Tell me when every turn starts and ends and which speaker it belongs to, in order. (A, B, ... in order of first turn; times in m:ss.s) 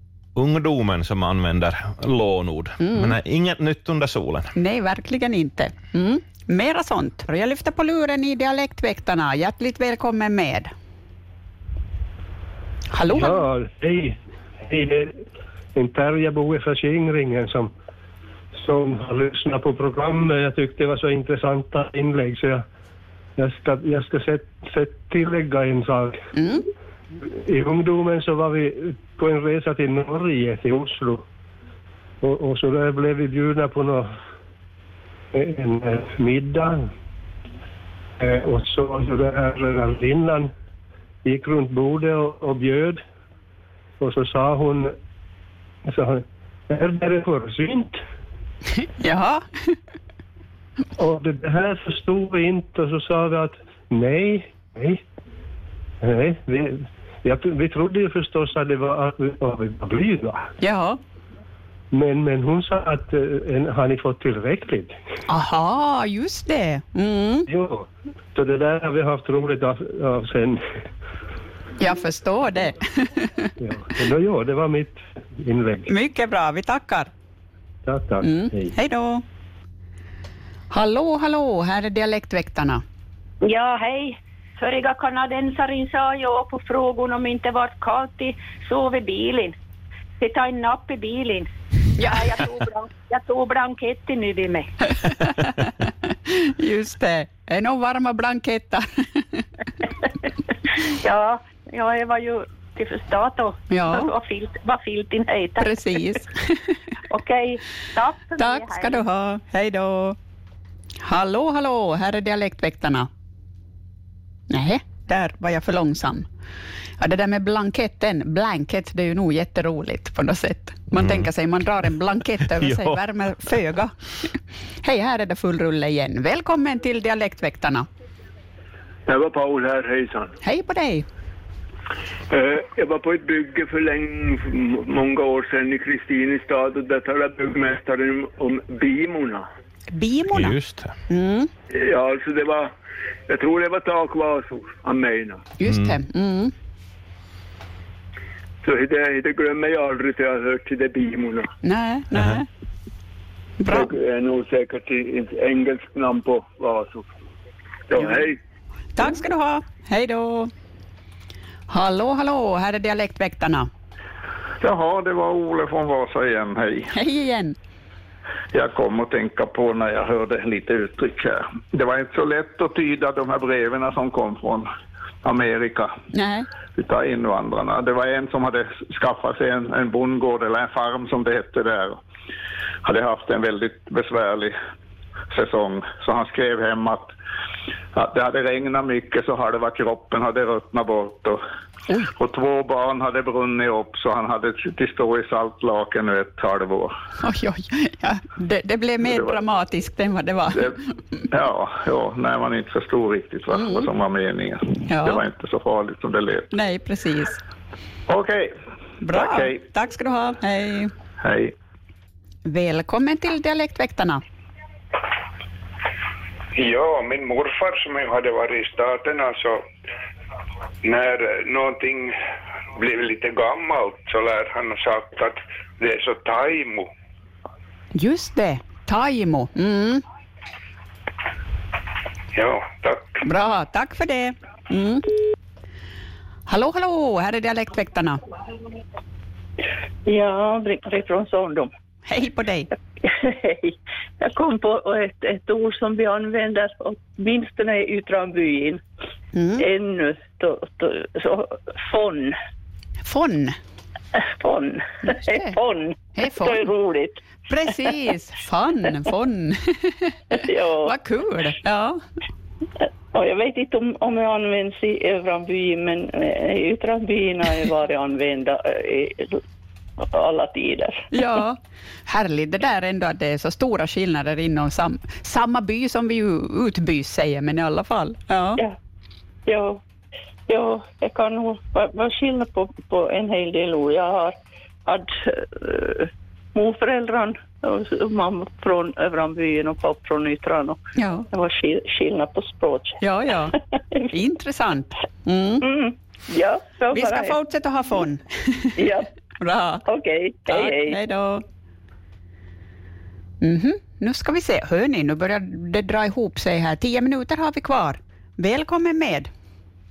0:00.4-0:04.5 A
0:02.8-0:03.1 B
0:04.6-0:10.7 B
0:12.9-0:13.4 B
0:13.1-0:15.2 C
0:15.8-0:17.7 C
0:18.5-0:22.6 C
0:23.4-0:26.2 C
0:26.4-0:26.6 B
0:27.3-0:31.2 C
0:32.2-0:34.1 C
0:35.3-0:36.9 C
0:38.2-0:40.5 C
0:41.2-0:43.0 C
0:44.0-0:44.9 C
0:45.9-0:48.0 C
0:49.0-0:49.4 B
0:51.0-0:55.0 C
0:56.0-1:00.5 C
1:00.6-1:01.0 B
1:01.9-1:04.9 C
1:05.3-1:07.5 B
1:07.5-1:10.6 C
1:11.8-1:13.5 B
1:13.6-1:15.9 C
1:15.9-1:17.1 B
1:17.9-1:18.8 C
1:18.2-1:19.2 B
1:20.7-1:22.8 B
1:23.4-1:29.6 D
1:30.2-1:31.5 D
1:32.0-1:34.7 D
1:35.0-1:39.4 B
1:40.9-1:45.8 D
1:43.7-1:44.1 B
1:45.6-1:46.8 B
1:47.1-1:49.0 D
1:48.4-1:50.2 B
1:51.0-1:53.1 B
1:54.5-1:56.3 B
1:57.0-2:07.9 B
2:01.0-2:01.3 A
2:02.6-2:03.0 A
2:09.1-2:10.4 E
2:10.4-2:11.0 B
2:12.3-2:19.5 E
2:19.9-2:20.6 B
2:20.3-2:20.9 A
2:21.1-2:21.5 B
2:21.7-2:22.7 E
2:23.3-2:25.4 E
2:25.6-2:26.5 B
2:25.6-2:26.0 A
2:28.6-2:31.5 E
2:31.6-2:32.5 B
2:33.6-2:33.9 B
2:33.7-2:37.1 E
2:37.9-2:38.4 E
2:39.0-2:40.5 B
2:41.7-2:43.7 B
2:44.6-2:46.9 F
2:46.9-2:47.6 B
2:48.5-2:54.7 F
2:55.2-2:55.9 F
2:56.1-2:56.5 B
2:56.8-3:02.0 F
3:02.8-3:04.6 F
3:05.3-3:07.1 F
3:07.9-3:11.4 F
3:12.1-3:16.9 F
3:17.2-3:20.8 B
3:19.0-3:19.3 F
3:21.3-3:26.5 F
3:23.5-3:23.9 B
3:24.9-3:25.2 B
3:26.5-3:27.4 B
3:28.1-3:28.5 F
3:29.0-3:30.9 B
3:29.1-3:29.6 F
3:31.2-3:31.5 F
3:32.5-3:34.2 B
3:36.6-3:39.6 G
3:40.8-3:42.2 G
3:42.8-3:46.9 G
3:48.0-3:50.0 B
3:52.3-3:53.2 G
3:53.2-3:55.1 B
3:56.5-3:58.2 B
4:00.1-4:01.7 H
4:02.1-4:02.7 B
4:03.0-4:08.8 H
4:09.4-4:09.6 B
4:09.6-4:12.4 H
4:13.0-4:13.6 B
4:14.4-4:17.2 H
4:15.2-4:15.5 B
4:16.2-4:16.7 B
4:17.5-4:22.0 B
4:20.3-4:21.0 H
4:23.1-4:29.4 H
4:30.0-4:31.2 H
4:31.1-4:38.6 B
4:39.5-4:39.8 H
4:40.5-4:44.4 H
4:44.9-4:50.8 H
4:51.0-4:51.3 B
4:51.3-4:53.0 H
4:53.0-4:53.6 B
4:54.1-4:55.7 B
4:55.6-4:57.4 H
4:56.9-4:58.8 B
4:58.8-4:59.1 H
4:59.4-4:59.8 B
4:59.8-5:01.0 H
5:00.5-5:01.4 B
5:03.4-5:09.3 B